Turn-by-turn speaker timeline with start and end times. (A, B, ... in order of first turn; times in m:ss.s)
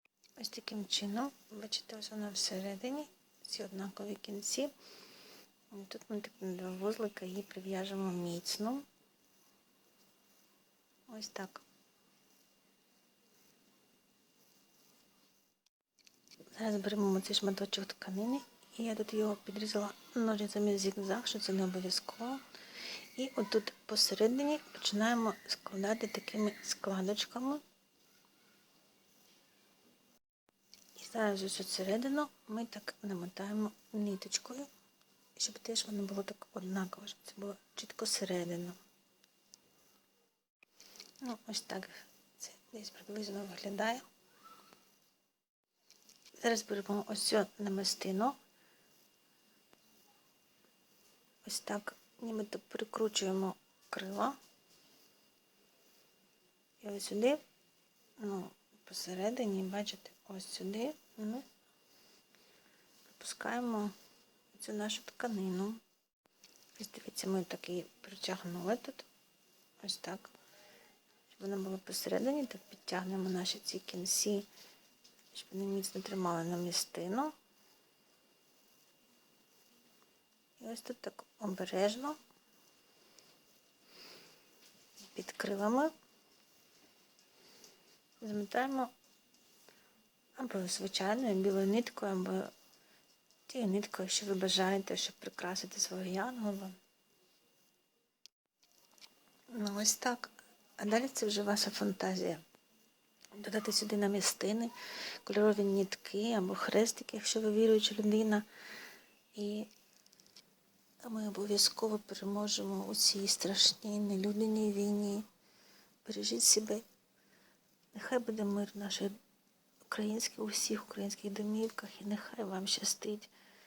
0:00.4-0:04.7 A
0:05.7-0:08.8 A
0:11.1-0:11.6 A
0:16.6-0:22.4 A
0:23.2-0:27.6 A
0:31.0-0:34.7 A
0:35.4-0:38.8 A
0:41.2-0:44.0 A
0:46.4-0:48.4 A
0:51.4-0:54.4 A
0:56.8-0:57.4 A
0:58.2-1:01.4 A
1:03.1-1:03.9 A
1:04.5-1:05.8 A
1:06.8-1:09.1 A
1:09.8-1:10.3 A
1:11.3-1:14.5 A
1:15.3-1:17.3 A
1:20.6-1:22.2 A
1:25.1-1:25.9 A
1:28.2-1:28.9 A
1:30.4-1:32.5 A
1:33.5-1:36.8 A
1:39.5-1:42.4 A
1:43.4-1:48.4 A
1:49.4-1:49.7 A
1:51.0-1:55.2 A
1:56.0-1:56.8 A
1:57.9-1:59.2 A
1:59.9-2:03.3 A